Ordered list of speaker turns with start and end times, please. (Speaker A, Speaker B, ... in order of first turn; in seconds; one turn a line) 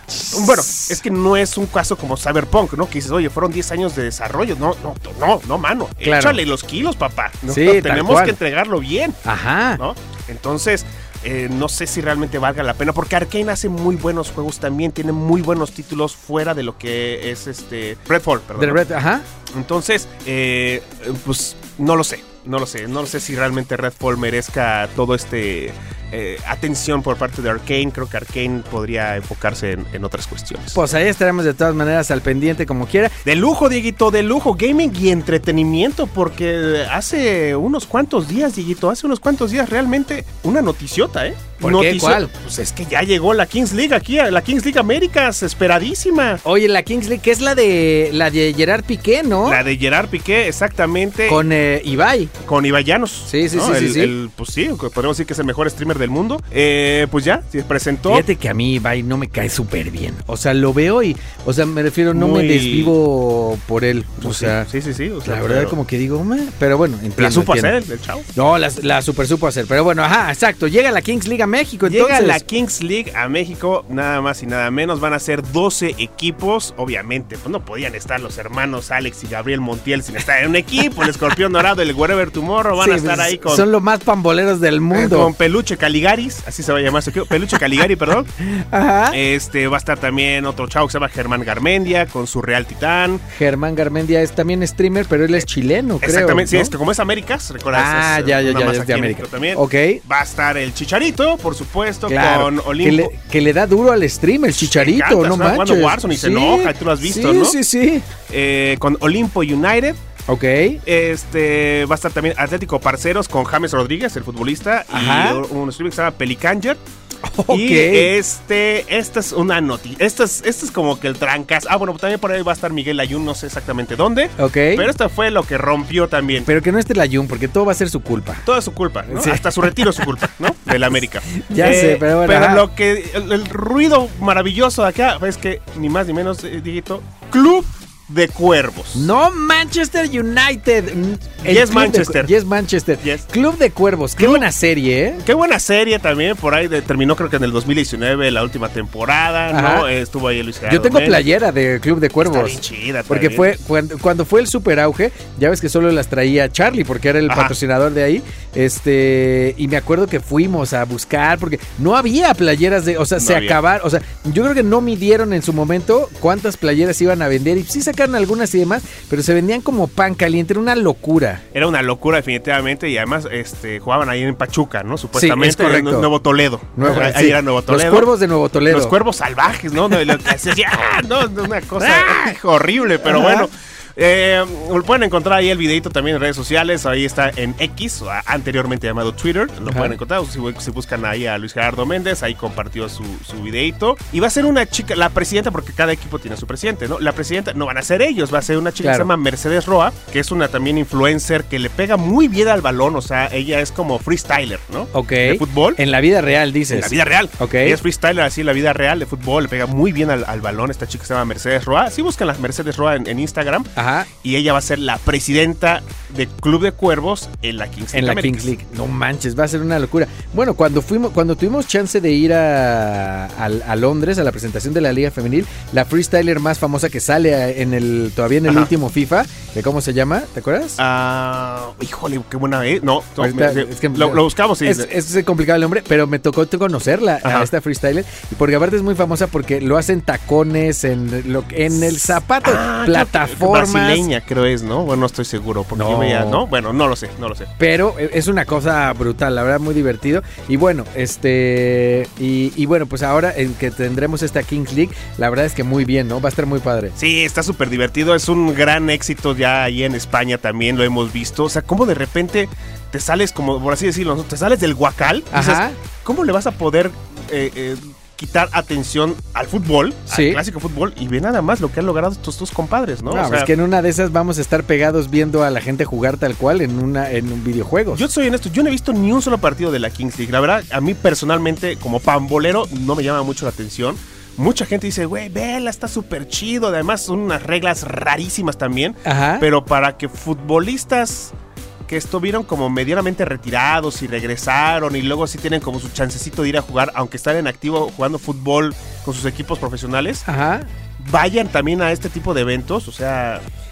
Speaker A: 0.2-9.2
Speaker B: 0.2-0.9
Speaker B: 6.0-6.4
Speaker B: 7.5-8.4
Speaker B: 9.2-9.8
Speaker A: 9.8-18.8
Speaker B: 18.6-19.2
Speaker A: 19.5-30.8
Speaker B: 30.7-33.1
Speaker A: 33.2-46.4
Speaker B: 41.6-42.3
Speaker B: 46.4-49.6
Speaker A: 49.4-51.4
Speaker B: 51.3-52.3
Speaker A: 52.4-58.2
Speaker B: 53.3-54.1
Speaker B: 58.1-64.7
Speaker A: 62.1-62.9
Speaker A: 64.2-65.8
Speaker B: 65.2-67.7
Speaker A: 67.2-68.2
Speaker B: 68.3-72.4
Speaker A: 71.8-83.7
Speaker B: 82.8-85.3
Speaker A: 84.9-88.3
Speaker B: 88.4-89.2
Speaker A: 89.1-93.2
Speaker B: 93.3-96.7
Speaker A: 96.0-103.1
Speaker B: 97.7-100.0
Speaker B: 102.1-108.1
Speaker A: 104.6-107.6
Speaker A: 108.3-110.0
Speaker B: 110.3-110.8
Speaker A: 110.8-116.8
Speaker B: 114.9-115.4
Speaker B: 117.2-118.1
Speaker A: 117.5-126.5
Speaker B: 124.4-124.9
Speaker B: 126.5-128.4
Speaker A: 128.4-139.1
Speaker B: 129.1-130.1
Speaker B: 131.3-132.7
Speaker B: 138.9-145.2
Speaker A: 141.4-142.3
Speaker A: 143.0-143.2
Speaker A: 144.2-144.5
Speaker A: 145.2-151.2
Speaker B: 149.5-149.9
Speaker B: 150.7-171.4
Speaker A: 152.2-153.5
Speaker A: 157.3-157.6
Speaker A: 163.2-163.6
Speaker A: 171.5-178.1
Speaker B: 175.1-176.1
Speaker B: 176.8-178.9
Speaker A: 178.7-205.8
Speaker B: 181.8-182.3
Speaker B: 183.0-183.5
Speaker B: 189.7-189.9
Speaker B: 198.8-199.1
Speaker B: 204.9-207.8
Speaker A: 206.7-218.5
Speaker B: 213.8-214.1
Speaker B: 217.9-230.8
Speaker A: 228.5-228.7
Speaker A: 230.8-234.9
Speaker B: 233.2-244.1
Speaker A: 237.2-237.5
Speaker A: 241.7-247.5
Speaker B: 245.7-246.4
Speaker B: 247.6-256.9
Speaker A: 256.9-273.5
Speaker B: 265.3-265.8
Speaker B: 270.1-270.4
Speaker B: 273.1-278.0
Speaker A: 277.9-291.3
Speaker B: 289.0-289.5
Speaker A: 291.9-300.2
Speaker B: 300.2-300.7
Speaker A: 301.0-303.4